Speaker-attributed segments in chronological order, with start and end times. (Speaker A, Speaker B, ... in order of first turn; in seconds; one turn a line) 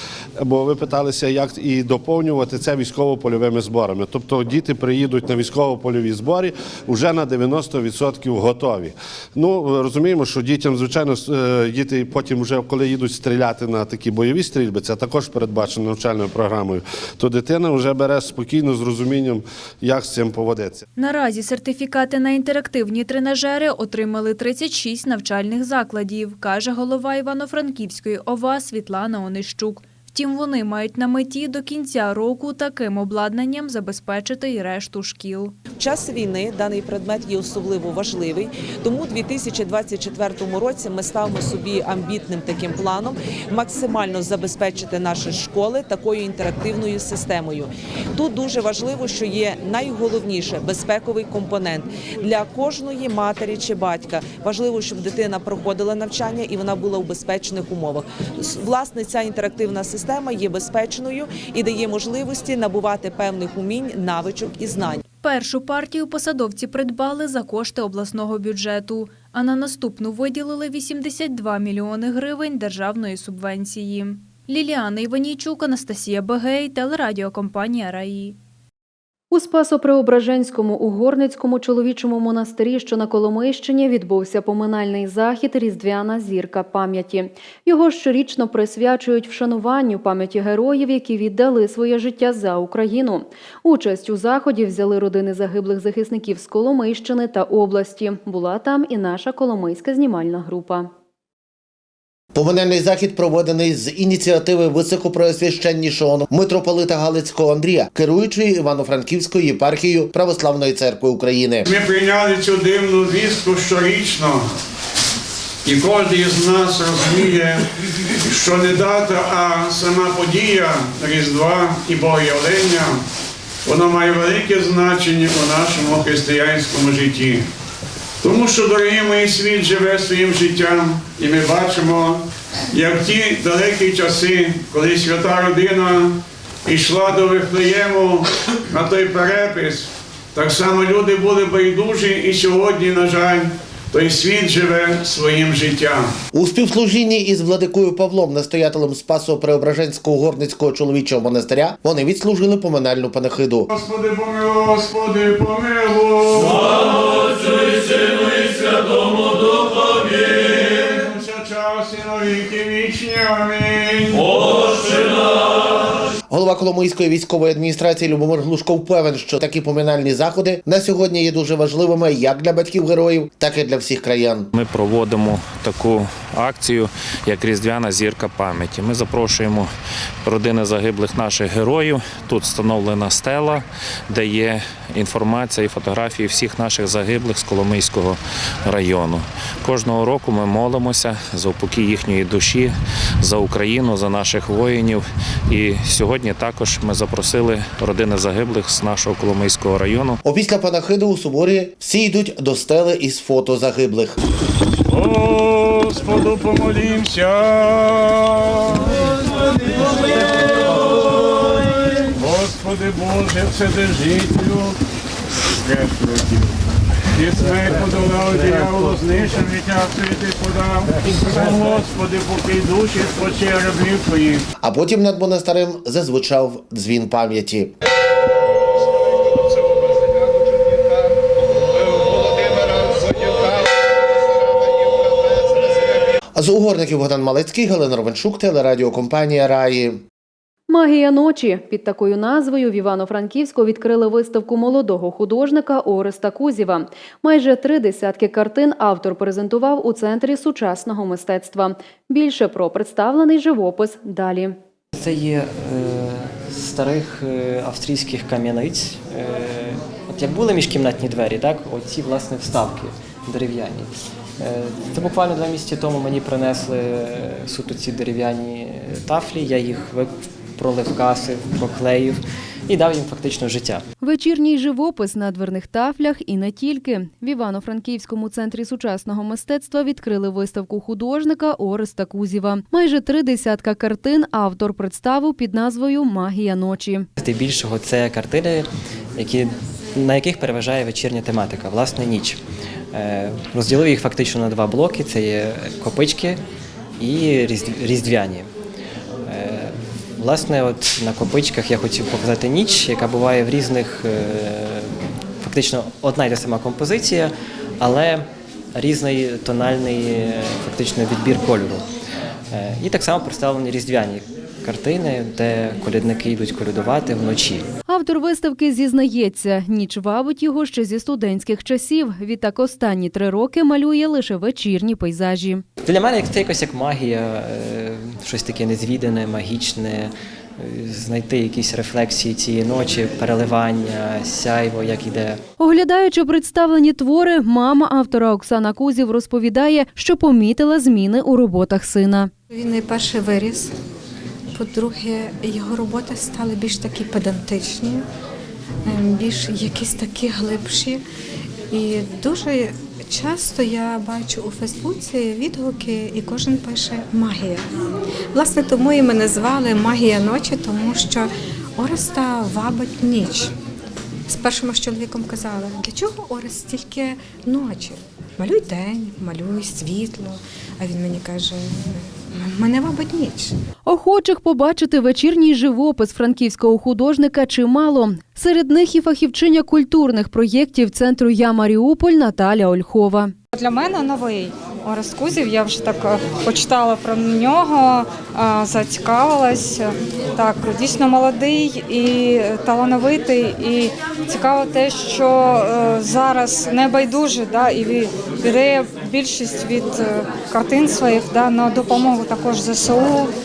Speaker A: 0.4-20.8
Speaker B: 21.0-35.5
Speaker C: 35.8-65.0
Speaker B: 65.2-78.4
Speaker D: 79.3-100.9
Speaker E: 102.3-111.7
Speaker F: 111.7-114.4
Speaker F: 115.6-117.6
Speaker F: 118.3-123.0
Speaker F: 123.7-127.4
Speaker F: 128.2-132.2
Speaker F: 132.7-136.1
Speaker F: 136.7-146.0
Speaker E: 146.3-153.7
Speaker F: 153.7-156.7
Speaker F: 160.8-164.2
Speaker E: 166.3-174.5
Speaker G: 174.5-179.7
Speaker G: 180.2-200.2
Speaker E: 200.2-204.2
Speaker F: 204.9-208.3
Speaker F: 212.2-214.7
Speaker F: 215.6-216.4
Speaker F: 217.2-224.4
Speaker E: 224.6-227.7
Speaker E: 236.3-240.0
Speaker D: 240.7-254.5
Speaker H: 254.9-273.8
Speaker D: 274.0-287.1
Speaker H: 287.2-292.4
Speaker H: 292.9-296.4
Speaker H: 297.0-298.5
Speaker H: 299.2-311.8
Speaker H: 312.5-317.7
Speaker D: 317.9-325.6
Speaker H: 325.8-335.4
Speaker D: 335.6-342.3
Speaker I: 342.5-343.7
Speaker I: 344.5-348.0
Speaker I: 348.9-351.0
Speaker I: 351.7-357.6
Speaker I: 358.3-363.5
Speaker I: 364.3-373.5
Speaker D: 373.8-383.3
Speaker J: 383.6-389.8
Speaker J: 390.4-403.2